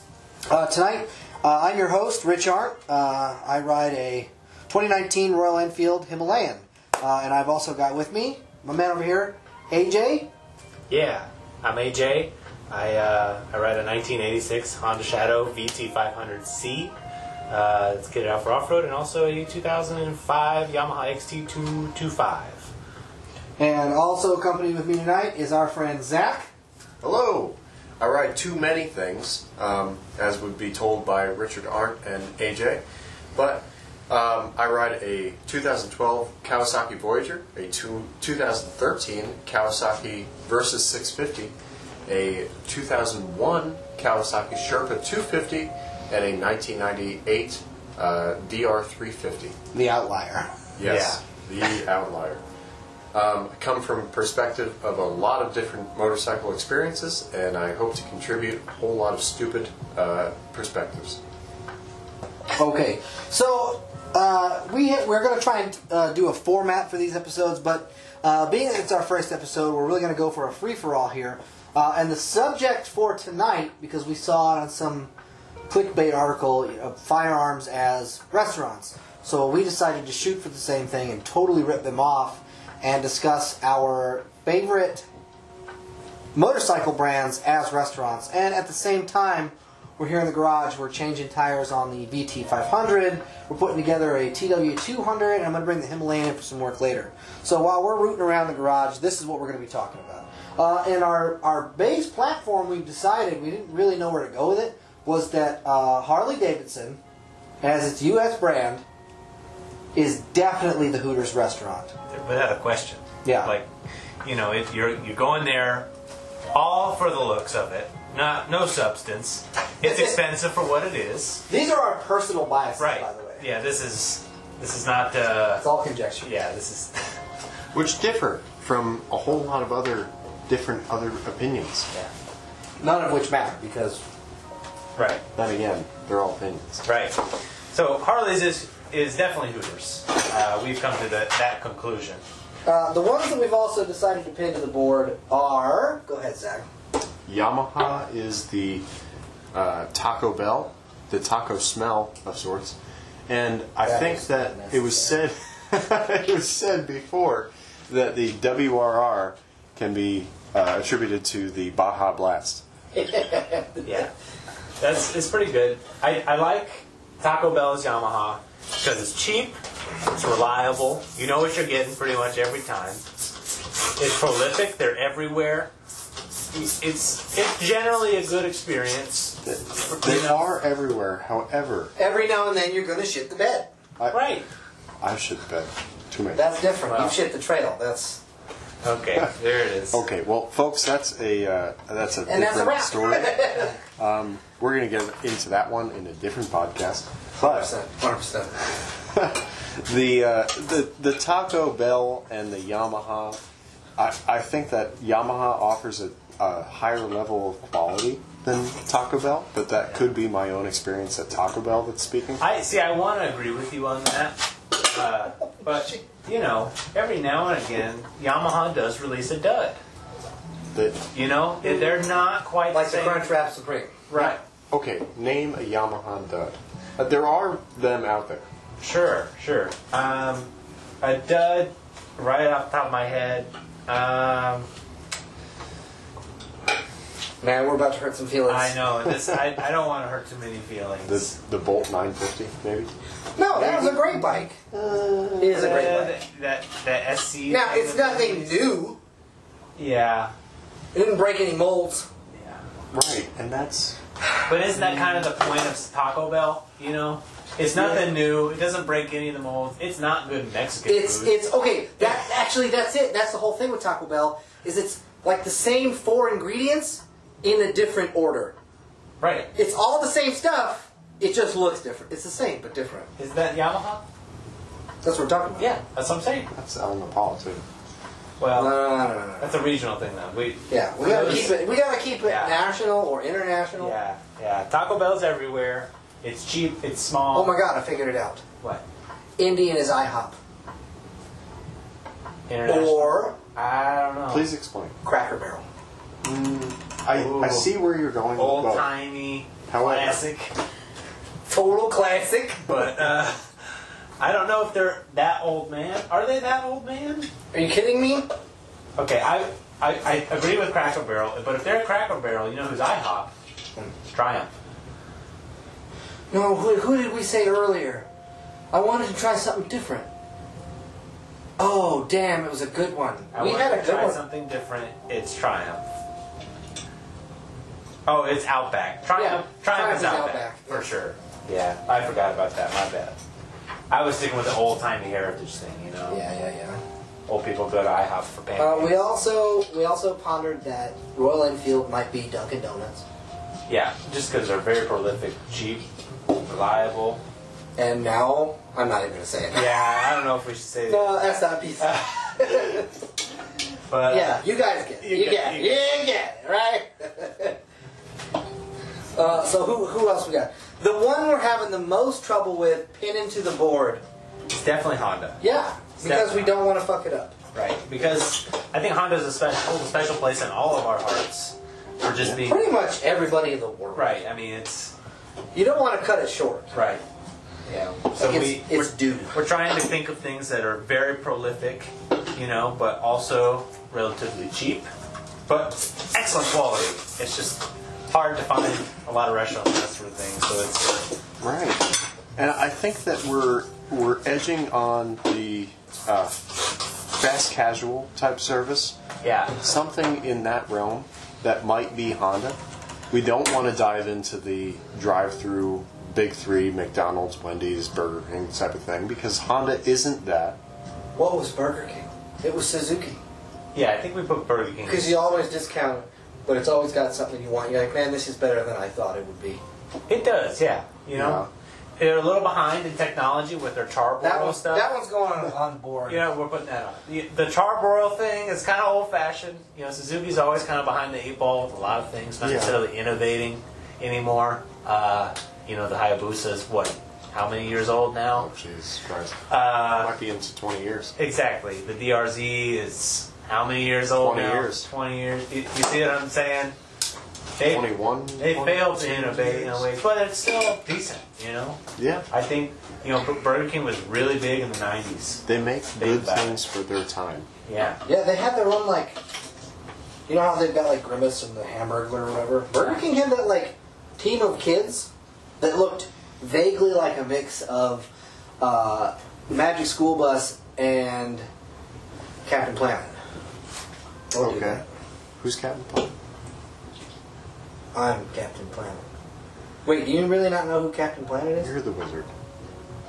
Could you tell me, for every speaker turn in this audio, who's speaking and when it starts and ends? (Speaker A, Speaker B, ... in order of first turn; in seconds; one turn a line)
Speaker A: 0.5-10.3
Speaker B: 10.9-16.9
Speaker B: 17.5-22.7
Speaker A: 23.6-26.5
Speaker C: 27.0-32.8
Speaker C: 33.3-41.5
Speaker C: 42.1-49.6
Speaker A: 49.7-50.5
Speaker C: 50.8-52.4
Speaker B: 50.8-51.2
Speaker C: 53.1-61.2
Speaker A: 62.6-75.1
Speaker A: 75.7-85.1
Speaker A: 86.3-107.0
Speaker A: 107.6-108.8
Speaker A: 110.0-111.9
Speaker B: 112.1-113.7
Speaker A: 113.2-113.5
Speaker B: 114.2-115.9
Speaker B: 116.5-121.4
Speaker A: 119.8-120.2
Speaker A: 121.5-123.4
Speaker B: 122.8-125.7
Speaker A: 125.6-126.3
Speaker B: 126.2-127.2
Speaker C: 127.7-131.9
Speaker A: 132.8-134.0
Speaker B: 135.0-135.2
Speaker C: 135.3-136.8
Speaker B: 136.8-137.2
Speaker B: 137.7-142.2
Speaker A: 142.7-146.7
Speaker C: 147.3-148.9
Speaker C: 149.5-152.8
Speaker C: 153.3-162.6
Speaker A: 153.8-155.1
Speaker B: 163.8-164.1
Speaker B: 164.8-173.0
Speaker B: 173.9-175.7
Speaker B: 176.5-180.4
Speaker C: 179.4-181.9
Speaker A: 182.0-183.7
Speaker B: 184.1-184.5
Speaker C: 185.0-186.4
Speaker A: 186.3-188.2
Speaker B: 186.9-187.2
Speaker B: 188.8-190.0
Speaker C: 189.9-197.7
Speaker A: 192.3-193.8
Speaker A: 197.4-198.9
Speaker C: 199.1-203.4
Speaker C: 204.0-212.4
Speaker B: 212.4-219.8
Speaker A: 215.6-216.0
Speaker C: 220.7-221.0
Speaker B: 221.1-223.3
Speaker A: 222.7-224.1
Speaker B: 224.1-224.4
Speaker C: 224.1-228.5
Speaker B: 228.8-234.7
Speaker A: 237.4-238.8
Speaker B: 238.5-241.3
Speaker C: 241.1-242.9
Speaker A: 243.4-244.6
Speaker C: 243.5-245.9
Speaker A: 245.4-246.2
Speaker B: 245.5-248.7
Speaker A: 247.5-249.0
Speaker B: 249.8-250.3
Speaker A: 250.9-252.1
Speaker C: 252.9-254.0
Speaker B: 254.5-261.4
Speaker A: 257.8-258.1
Speaker A: 260.9-268.6
Speaker B: 269.2-269.5
Speaker A: 269.5-273.1
Speaker B: 273.2-274.0
Speaker A: 275.0-275.7
Speaker B: 275.6-276.5
Speaker C: 276.5-277.6
Speaker B: 278.4-278.8
Speaker A: 278.5-279.6
Speaker B: 279.4-281.6
Speaker A: 280.7-284.0
Speaker B: 282.2-282.6
Speaker B: 283.8-287.6
Speaker A: 287.3-288.4
Speaker A: 289.4-290.4
Speaker B: 292.5-294.5
Speaker A: 292.7-293.4
Speaker C: 294.3-294.9
Speaker A: 295.0-295.6
Speaker C: 296.2-298.9
Speaker B: 297.1-297.7
Speaker B: 298.4-300.5
Speaker C: 299.7-300.2
Speaker A: 301.5-302.7
Speaker B: 302.7-303.5
Speaker B: 304.2-307.3
Speaker A: 307.5-308.3
Speaker B: 309.0-313.3
Speaker B: 314.1-314.5
Speaker A: 316.3-318.1
Speaker A: 318.7-320.1
Speaker A: 321.6-324.2
Speaker B: 323.3-325.9
Speaker B: 328.1-333.2
Speaker A: 329.2-330.9
Speaker B: 333.9-336.2
Speaker A: 336.1-336.8
Speaker B: 337.3-339.1
Speaker A: 338.6-343.0
Speaker B: 343.7-347.2
Speaker A: 347.8-349.8
Speaker B: 349.5-352.8
Speaker A: 350.9-352.9
Speaker B: 353.9-354.4
Speaker A: 354.1-357.6
Speaker B: 355.0-356.0
Speaker A: 359.1-364.0
Speaker B: 364.5-365.4
Speaker A: 365.4-367.4
Speaker B: 366.0-366.6
Speaker B: 367.5-372.7
Speaker A: 372.5-374.2
Speaker B: 373.9-374.9
Speaker A: 375.5-376.8
Speaker B: 376.7-377.0
Speaker B: 377.6-384.9
Speaker A: 378.2-379.4
Speaker B: 385.5-391.1
Speaker C: 391.4-399.0
Speaker B: 399.2-399.6
Speaker C: 399.6-402.6
Speaker C: 403.1-410.6
Speaker A: 411.2-413.2
Speaker B: 413.7-415.4
Speaker A: 414.9-419.6
Speaker B: 420.1-421.5
Speaker C: 421.1-421.5
Speaker B: 422.0-424.9
Speaker A: 424.2-426.3
Speaker B: 426.1-438.5
Speaker C: 432.4-432.8
Speaker C: 438.4-441.1
Speaker B: 439.5-440.1
Speaker B: 441.2-446.8
Speaker C: 444.2-444.9
Speaker B: 447.6-455.4
Speaker C: 447.6-449.9
Speaker C: 452.0-452.3
Speaker C: 455.5-457.5
Speaker B: 456.0-456.6
Speaker B: 457.7-458.0
Speaker A: 458.1-459.2
Speaker A: 460.3-465.1
Speaker B: 462.7-463.0
Speaker A: 465.6-468.1
Speaker A: 468.6-471.5
Speaker A: 472.4-473.1
Speaker A: 474.3-474.8
Speaker C: 474.4-474.8
Speaker C: 475.4-476.1
Speaker A: 477.9-479.1
Speaker A: 479.9-481.7
Speaker C: 481.6-482.3